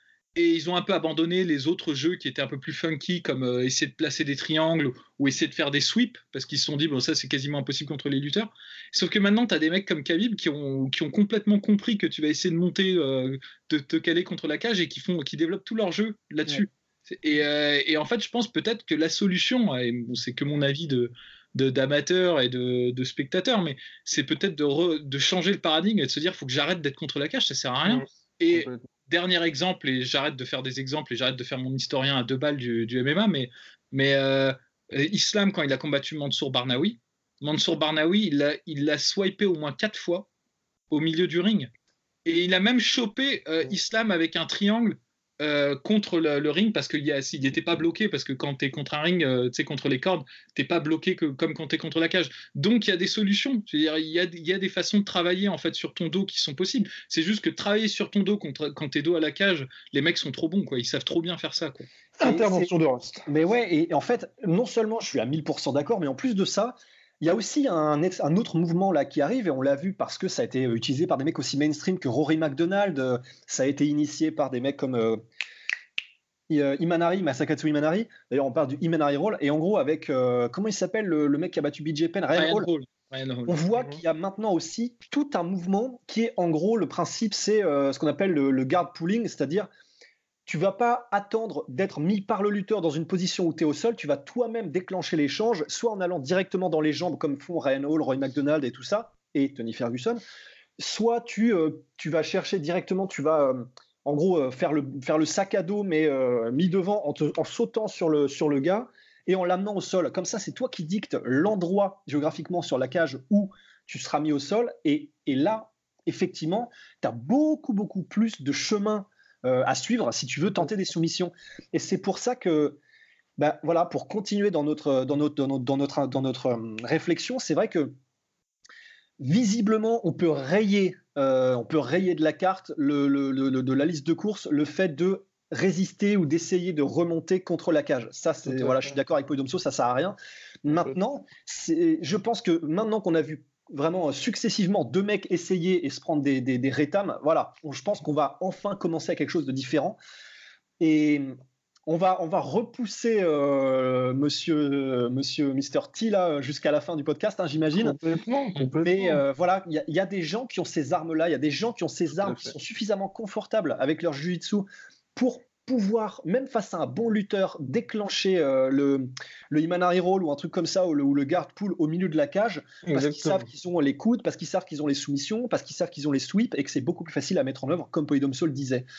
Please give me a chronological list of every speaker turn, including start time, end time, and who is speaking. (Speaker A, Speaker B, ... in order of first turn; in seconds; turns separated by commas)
Speaker A: 0.3-40.3, Speaker B: 27.9-28.8, Speaker A: 40.9-41.7, Speaker A: 42.2-61.9, Speaker B: 62.2-63.3, Speaker C: 62.2-62.7, Speaker C: 63.3-75.2, Speaker C: 76.5-82.7, Speaker A: 82.3-83.6, Speaker C: 83.5-89.7, Speaker C: 90.5-100.2, Speaker C: 100.8-122.8, Speaker C: 123.4-128.0, Speaker C: 129.2-150.0, Speaker B: 138.5-138.9, Speaker C: 150.8-158.0, Speaker B: 157.7-159.2, Speaker C: 158.8-178.9, Speaker B: 162.2-162.5, Speaker B: 172.9-173.5